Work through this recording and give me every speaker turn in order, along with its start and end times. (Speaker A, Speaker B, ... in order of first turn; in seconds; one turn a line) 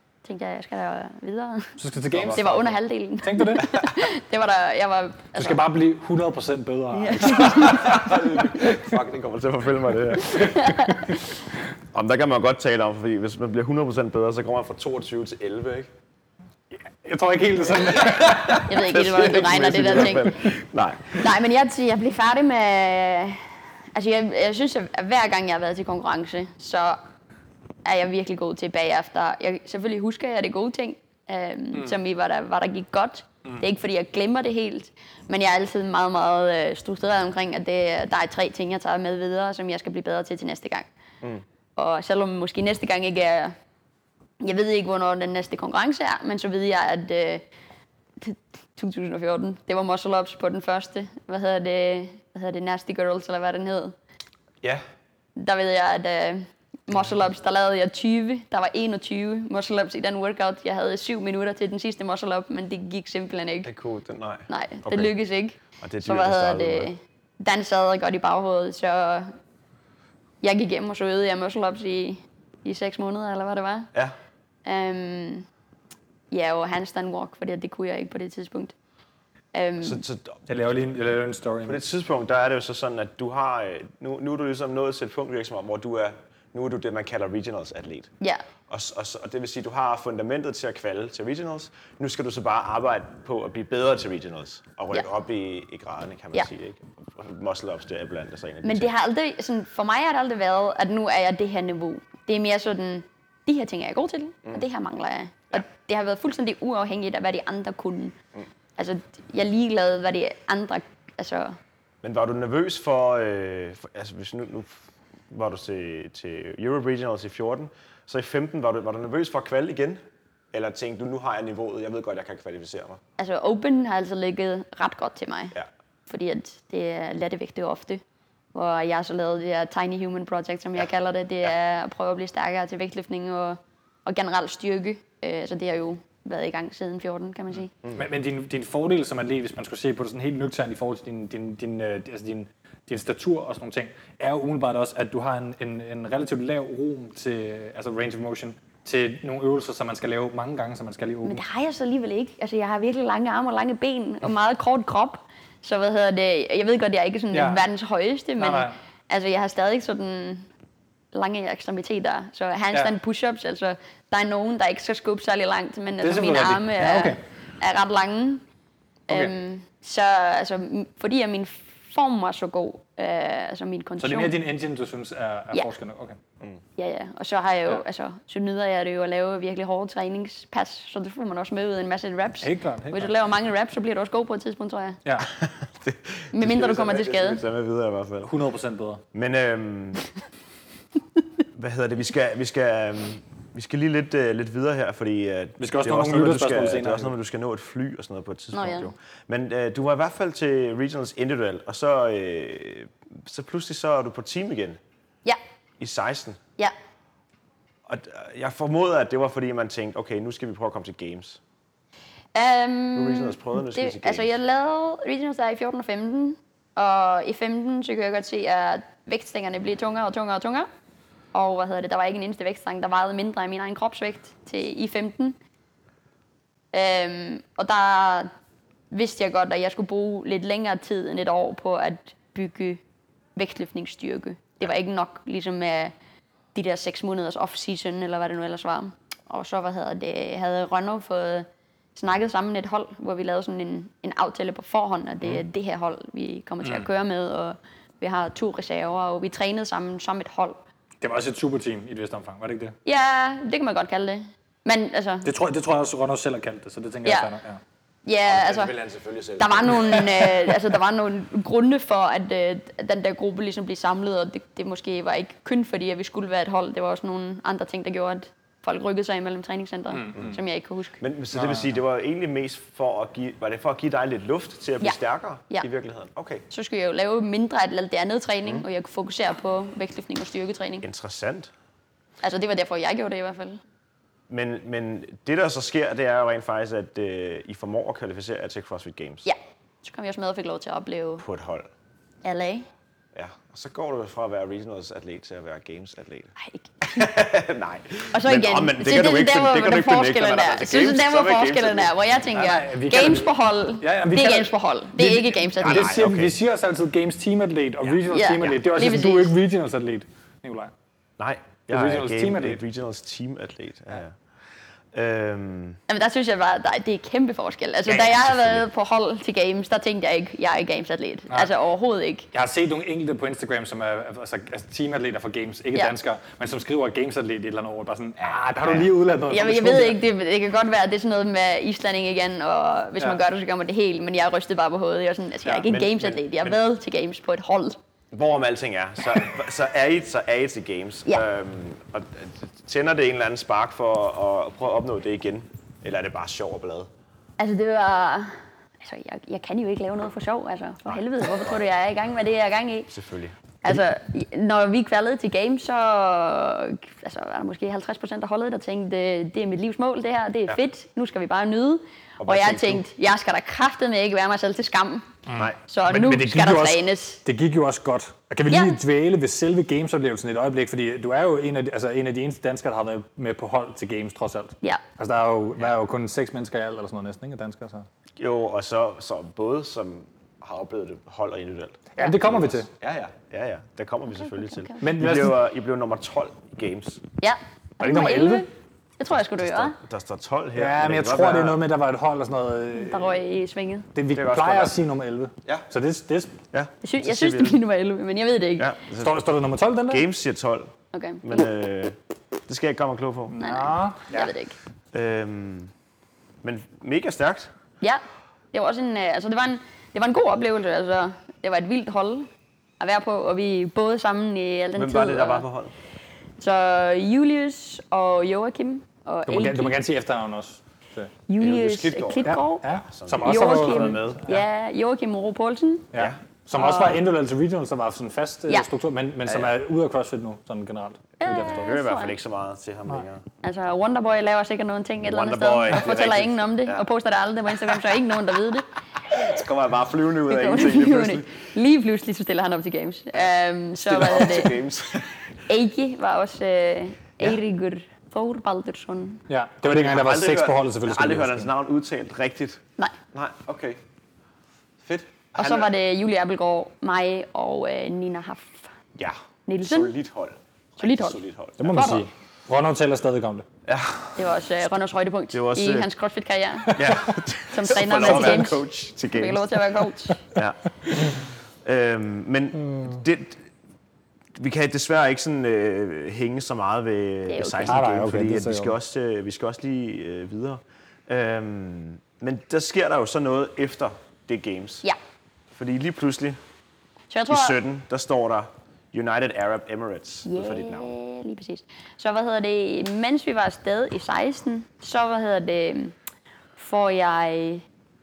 Speaker A: 0.2-5.6
Speaker B: 1.8-2.6
Speaker C: 2.1-2.7
Speaker B: 3.2-3.7
Speaker B: 5.3-7.9
Speaker A: 6.9-8.1
Speaker C: 7.2-10.8
Speaker A: 10.2-11.3
Speaker C: 11.9-15.9
Speaker B: 17.0-18.7
Speaker C: 17.8-21.2
Speaker A: 18.0-20.4
Speaker B: 19.8-20.3
Speaker A: 21.1-27.0
Speaker A: 27.8-40.9
Speaker A: 41.8-43.5
Speaker A: 44.4-47.4
Speaker A: 48.2-53.9
Speaker A: 55.4-63.7
Speaker C: 63.6-65.1
Speaker A: 64.5-69.3
Speaker C: 65.8-66.9
Speaker A: 70.4-73.9
Speaker A: 74.6-75.5
Speaker A: 76.3-78.7
Speaker A: 79.5-80.0
Speaker C: 79.8-80.4
Speaker B: 80.5-81.8
Speaker C: 81.6-88.1
Speaker C: 88.7-98.9
Speaker A: 98.6-108.2
Speaker A: 108.8-111.6
Speaker C: 112.0-120.0
Speaker C: 120.5-123.0
Speaker A: 123.2-125.5
Speaker A: 126.1-128.0
Speaker A: 128.5-137.7
Speaker B: 137.9-151.4
Speaker A: 151.2-160.5
Speaker B: 157.3-157.7
Speaker B: 158.4-158.7
Speaker A: 161.1-168.4
Speaker B: 166.0-167.2
Speaker A: 169.1-174.3
Speaker B: 174.0-176.2
Speaker A: 176.8-185.0
Speaker B: 182.4-183.1
Speaker C: 185.3-188.3
Speaker A: 186.3-187.4
Speaker B: 188.2-189.0
Speaker C: 189.1-190.0
Speaker C: 191.5-204.8
Speaker B: 195.6-197.1
Speaker A: 198.5-198.9
Speaker C: 205.8-206.4
Speaker C: 207.8-211.4
Speaker A: 212.3-220.7
Speaker C: 212.9-214.4
Speaker A: 221.3-225.4
Speaker A: 226.7-228.3
Speaker A: 228.9-232.8
Speaker A: 233.3-235.9
Speaker A: 236.5-250.6
Speaker B: 251.0-252.7
Speaker A: 252.8-255.3
Speaker B: 255.2-257.6
Speaker A: 257.0-257.3
Speaker A: 258.1-258.7
Speaker C: 258.2-260.3
Speaker A: 259.4-271.0
Speaker B: 269.9-270.3
Speaker C: 271.0-276.4
Speaker B: 271.4-271.7
Speaker A: 276.5-280.9
Speaker C: 280.8-281.5
Speaker A: 282.2-283.6
Speaker C: 284.3-289.3
Speaker A: 289.2-291.2
Speaker C: 291.2-291.7
Speaker A: 292.2-292.7
Speaker C: 293.1-301.9
Speaker A: 296.4-297.1
Speaker A: 298.1-306.0
Speaker B: 302.3-310.7
Speaker C: 305.6-306.4
Speaker C: 307.8-308.6
Speaker A: 308.0-309.3
Speaker C: 311.2-314.2
Speaker B: 311.7-312.6
Speaker C: 314.9-315.8
Speaker A: 315.9-322.3
Speaker C: 318.0-318.6
Speaker B: 322.3-330.0
Speaker C: 328.2-328.9
Speaker A: 329.3-337.8
Speaker C: 335.5-336.6
Speaker C: 338.1-346.9
Speaker A: 347.4-352.9
Speaker C: 350.9-351.5
Speaker C: 352.9-353.8
Speaker A: 353.6-365.1
Speaker C: 362.2-362.8
Speaker B: 365.3-377.9
Speaker A: 365.7-367.2
Speaker A: 368.5-368.8
Speaker C: 378.2-387.0
Speaker B: 381.9-382.7
Speaker A: 384.2-384.9
Speaker B: 384.8-385.4
Speaker A: 387.2-388.5
Speaker B: 387.8-388.4
Speaker A: 389.0-389.8
Speaker C: 389.1-391.6
Speaker B: 390.6-393.2
Speaker A: 392.7-393.9
Speaker B: 393.9-396.3
Speaker C: 394.1-394.8
Speaker C: 396.5-397.6
Speaker A: 396.8-398.7
Speaker C: 398.6-399.3
Speaker B: 399.0-400.1
Speaker C: 399.9-401.9
Speaker A: 400.9-401.4
Speaker C: 402.5-403.4
Speaker B: 403.3-404.3
Speaker A: 403.4-404.6
Speaker C: 404.9-405.7
Speaker C: 406.4-407.5
Speaker A: 408.5-412.3
Speaker A: 412.8-415.4
Speaker C: 414.7-415.7
Speaker A: 416.4-419.8
Speaker B: 419.3-421.1
Speaker A: 421.3-422.7
Speaker C: 421.4-424.2
Speaker B: 422.2-424.4
Speaker A: 423.2-425.9
Speaker B: 425.9-431.5
Speaker C: 425.9-426.2
Speaker A: 426.5-427.0
Speaker C: 429.2-429.5
Speaker A: 431.2-432.1
Speaker C: 431.2-433.2
Speaker A: 433.4-438.6
Speaker C: 435.0-436.9
Speaker C: 439.1-441.4
Speaker A: 440.3-444.6
Speaker C: 443.8-445.1
Speaker A: 445.5-449.2
Speaker B: 449.3-451.5
Speaker C: 449.6-453.8
Speaker C: 454.8-455.7
Speaker A: 455.4-458.7
Speaker C: 458.9-461.9
Speaker A: 459.4-459.9
Speaker A: 460.8-462.1
Speaker B: 461.6-463.4
Speaker C: 463.6-464.1
Speaker A: 464.1-466.8
Speaker C: 465.3-465.9
Speaker B: 466.7-467.0
Speaker C: 466.7-469.6
Speaker A: 467.5-470.2
Speaker B: 468.0-468.4
Speaker C: 470.3-473.4
Speaker C: 474.4-484.8
Speaker A: 477.3-477.8
Speaker B: 477.6-478.7
Speaker C: 485.5-486.4
Speaker A: 487.1-487.6
Speaker C: 487.3-490.9
Speaker A: 490.2-495.9
Speaker A: 496.6-497.6